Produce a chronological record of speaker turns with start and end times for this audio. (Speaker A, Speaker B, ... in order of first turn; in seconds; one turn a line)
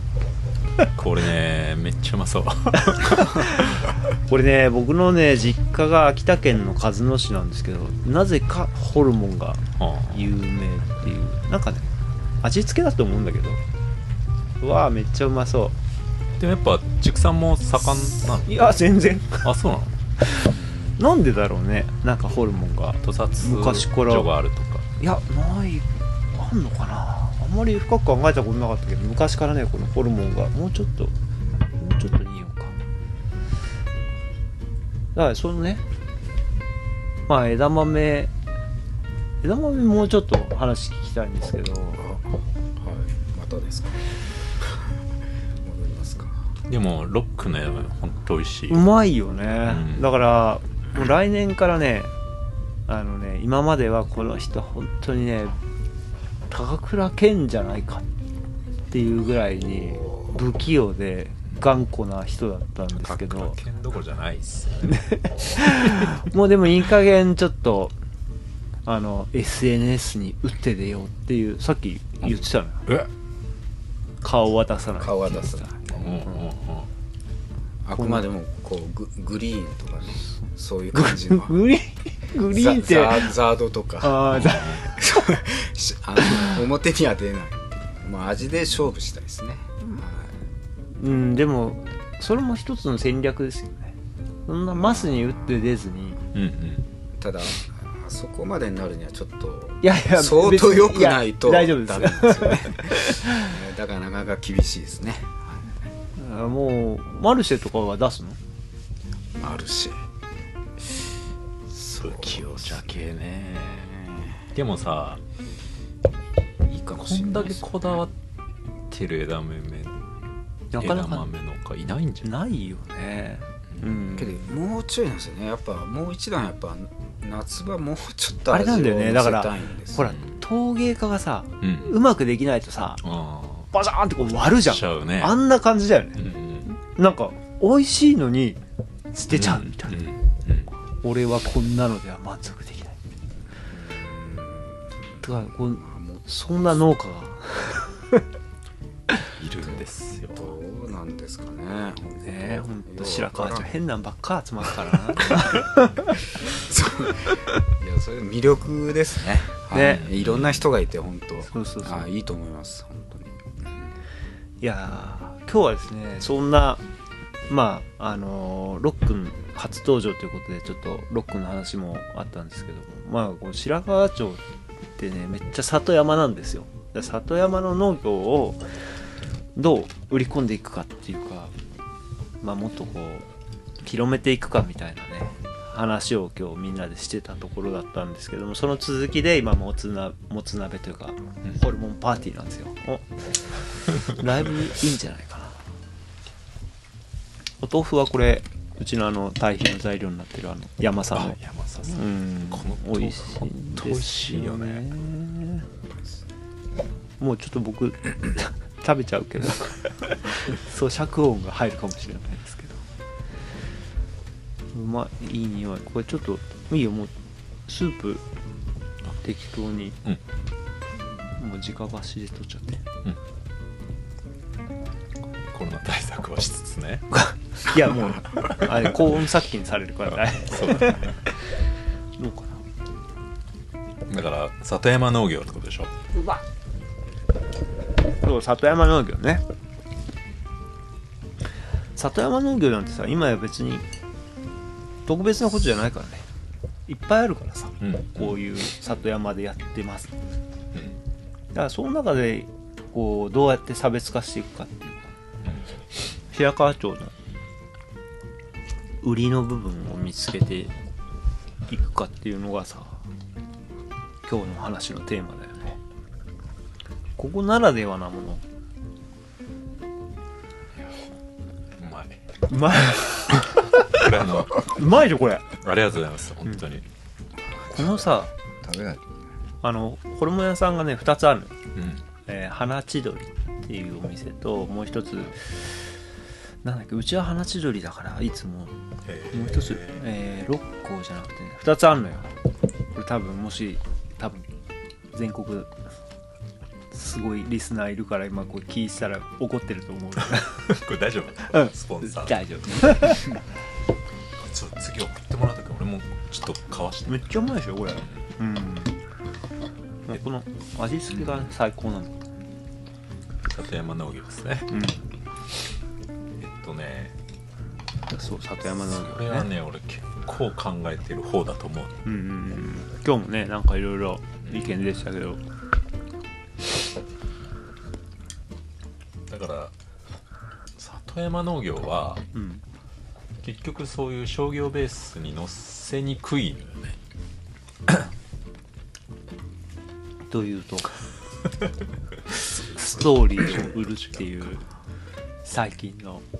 Speaker A: 0.9-3.8
Speaker B: 2.8-11.9
Speaker A: 9.8-10.3
Speaker B: 12.4-13.6
Speaker B: 14.6-15.7
Speaker A: 16.4-18.8
Speaker B: 18.4-19.5
Speaker A: 19.4-19.9
Speaker B: 20.2-24.3
Speaker C: 20.5-21.0
Speaker A: 23.0-24.9
Speaker B: 25.0-31.1
Speaker B: 31.8-32.7
Speaker B: 35.1-35.8
Speaker B: 37.3-38.3
Speaker B: 39.4-42.1
Speaker C: 42.0-44.9
Speaker C: 45.6-46.4
Speaker A: 46.7-48.8
Speaker B: 48.7-52.1
Speaker A: 49.6-50.1
Speaker B: 52.9-55.6
Speaker B: 56.5-58.0
Speaker B: 58.9-63.6
Speaker C: 59.9-60.2
Speaker A: 63.0-65.0
Speaker B: 64.9-67.9
Speaker B: 68.8-72.8
Speaker B: 74.2-75.8
Speaker C: 75.0-76.3
Speaker A: 75.9-76.9
Speaker C: 77.8-81.6
Speaker B: 77.9-78.2
Speaker B: 80.9-83.3
Speaker C: 82.5-90.4
Speaker B: 84.0-85.2
Speaker A: 84.3-84.8
Speaker B: 90.9-93.9
Speaker B: 94.5-96.2
Speaker C: 94.7-95.8
Speaker A: 96.3-96.8
Speaker C: 97.2-105.7
Speaker B: 99.8-103.5
Speaker B: 106.2-108.4
Speaker C: 109.3-110.0
Speaker C: 111.7-114.4
Speaker A: 112.0-113.9
Speaker A: 114.5-115.2
Speaker C: 116.6-118.0
Speaker A: 117.0-118.1
Speaker A: 118.9-119.9
Speaker B: 120.7-121.3
Speaker A: 120.8-122.3
Speaker B: 122.2-124.4
Speaker C: 124.1-130.2
Speaker B: 128.5-133.0
Speaker A: 130.0-130.4
Speaker A: 131.6-132.0
Speaker A: 133.0-135.4
Speaker B: 133.7-138.6
Speaker A: 136.2-136.7
Speaker B: 139.1-140.0
Speaker A: 139.3-140.7
Speaker B: 141.0-143.0
Speaker C: 143.6-146.3
Speaker B: 145.2-148.2
Speaker A: 149.4-150.5
Speaker C: 150.3-153.7
Speaker B: 152.2-156.2
Speaker C: 156.3-163.9
Speaker B: 159.7-160.0
Speaker A: 159.7-160.6
Speaker B: 161.5-162.1
Speaker B: 164.6-166.8
Speaker B: 167.5-174.4
Speaker B: 175.0-178.7
Speaker B: 179.5-181.5
Speaker B: 182.4-183.2
Speaker B: 183.8-195.6
Speaker B: 197.6-205.7
Speaker A: 201.1-204.9
Speaker B: 207.2-212.8
Speaker B: 214.7-217.1
Speaker B: 217.7-218.2
Speaker B: 219.2-220.0
Speaker B: 221.4-222.8
Speaker A: 225.5-227.1
Speaker B: 227.1-231.3
Speaker A: 230.2-231.1
Speaker B: 232.2-232.6
Speaker A: 234.1-235.9
Speaker B: 236.1-236.4
Speaker B: 238.2-239.4
Speaker B: 241.9-243.8
Speaker B: 245.1-246.2
Speaker B: 246.9-250.2
Speaker A: 247.8-248.4
Speaker B: 251.5-255.1
Speaker B: 256.3-257.1
Speaker B: 259.0-260.7
Speaker B: 261.7-263.0
Speaker B: 264.2-265.8
Speaker B: 267.2-268.4
Speaker A: 271.8-272.2
Speaker B: 272.5-275.5
Speaker A: 273.9-274.8
Speaker A: 275.6-276.8
Speaker C: 277.5-279.0
Speaker B: 277.7-278.3
Speaker B: 279.6-281.6
Speaker A: 281.7-282.0
Speaker B: 282.2-285.6
Speaker B: 286.6-288.7
Speaker A: 289.0-290.0
Speaker B: 289.3-292.3
Speaker B: 292.9-294.5
Speaker B: 295.1-295.7
Speaker B: 296.9-300.7
Speaker A: 300.7-303.1
Speaker B: 301.5-303.4
Speaker A: 304.4-307.3
Speaker B: 307.1-308.9
Speaker B: 310.1-312.2
Speaker A: 313.5-314.7
Speaker B: 314.7-315.0
Speaker A: 316.4-317.1
Speaker B: 318.1-319.5
Speaker A: 318.7-322.0
Speaker B: 322.0-325.4
Speaker A: 324.4-324.7
Speaker A: 329.3-329.7
Speaker A: 330.8-332.2
Speaker B: 332.3-332.6
Speaker A: 333.4-337.0
Speaker B: 340.3-340.9
Speaker B: 342.4-344.6
Speaker A: 343.4-343.8
Speaker B: 345.4-346.2